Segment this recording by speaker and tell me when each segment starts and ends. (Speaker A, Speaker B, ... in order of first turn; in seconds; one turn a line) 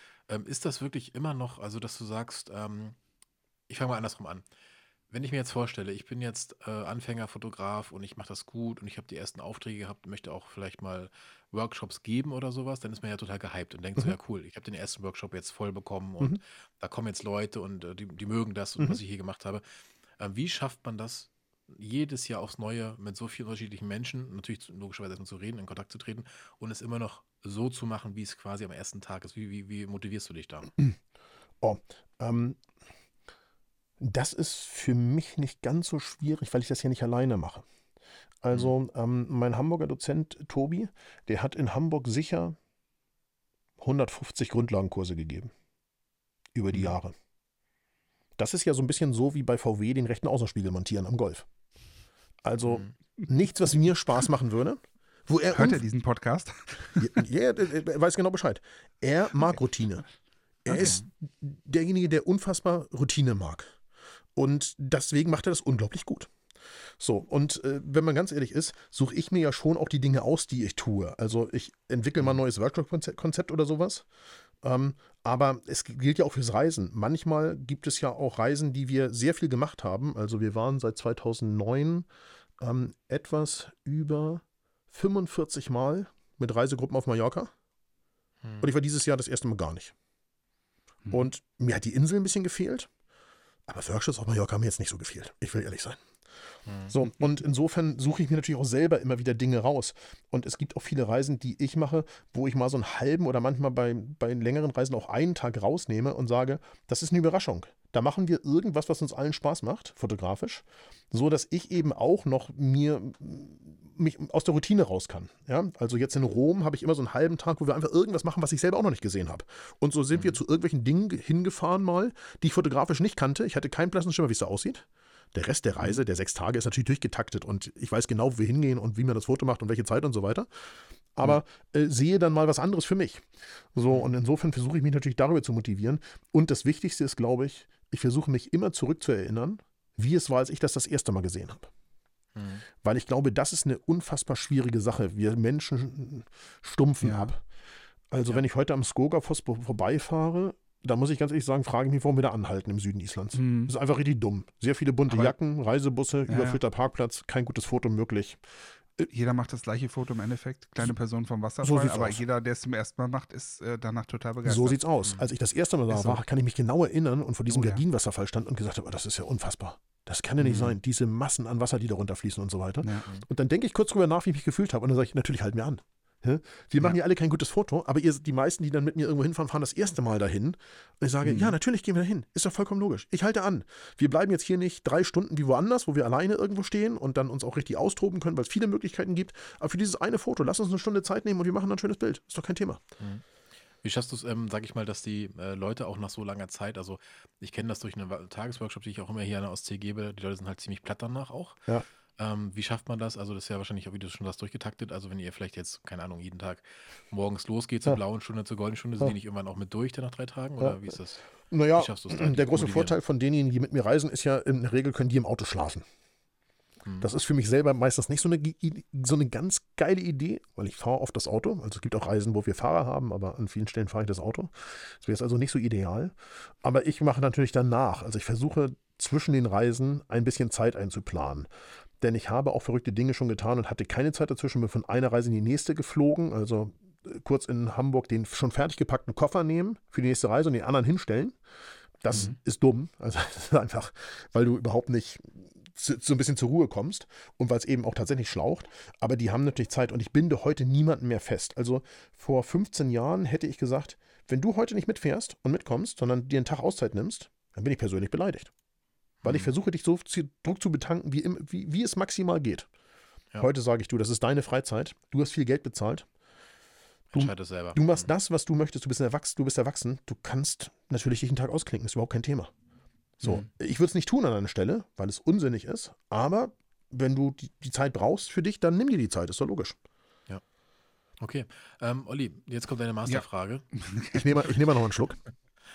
Speaker A: 0.3-3.0
Speaker A: 3.7-4.4
Speaker A: 5.1-19.6
Speaker A: 20.2-30.7
Speaker B: 31.6-32.6
Speaker B: 34.0-37.6
Speaker B: 38.4-42.5
Speaker B: 43.8-45.5
Speaker B: 46.5-47.1
Speaker B: 48.4-51.5
Speaker B: 52.4-55.8
Speaker C: 55.5-57.2
Speaker B: 57.0-60.0
Speaker B: 60.6-63.7
Speaker C: 60.7-61.0
Speaker B: 64.3-66.3
Speaker B: 67.0-74.0
Speaker B: 74.6-82.1
Speaker B: 82.6-87.5
Speaker A: 88.4-88.7
Speaker B: 88.6-89.9
Speaker B: 91.1-92.9
Speaker B: 93.7-96.0
Speaker A: 96.7-97.0
Speaker B: 96.9-130.5
Speaker B: 131.2-141.7
Speaker A: 142.3-142.6
Speaker B: 142.8-147.4
Speaker C: 147.0-147.3
Speaker B: 148.1-158.4
Speaker C: 153.3-153.7
Speaker C: 155.1-155.3
Speaker C: 156.3-156.6
Speaker C: 159.0-164.8
Speaker B: 161.6-162.2
Speaker B: 164.4-192.8
Speaker C: 167.5-167.8
Speaker C: 170.4-170.7
Speaker C: 172.8-173.1
Speaker C: 181.2-181.5
Speaker A: 193.8-201.6
Speaker A: 202.2-213.0
Speaker B: 210.6-210.9
Speaker B: 211.5-215.8
Speaker B: 217.0-231.5
Speaker B: 232.0-241.3
Speaker B: 242.0-258.5
Speaker A: 259.2-259.5
Speaker B: 259.2-262.7
Speaker B: 263.4-266.1
Speaker A: 267.1-268.1
Speaker B: 267.1-272.5
Speaker B: 273.2-279.7
Speaker A: 273.2-273.5
Speaker A: 281.2-283.6
Speaker C: 283.1-284.5
Speaker B: 284.1-285.2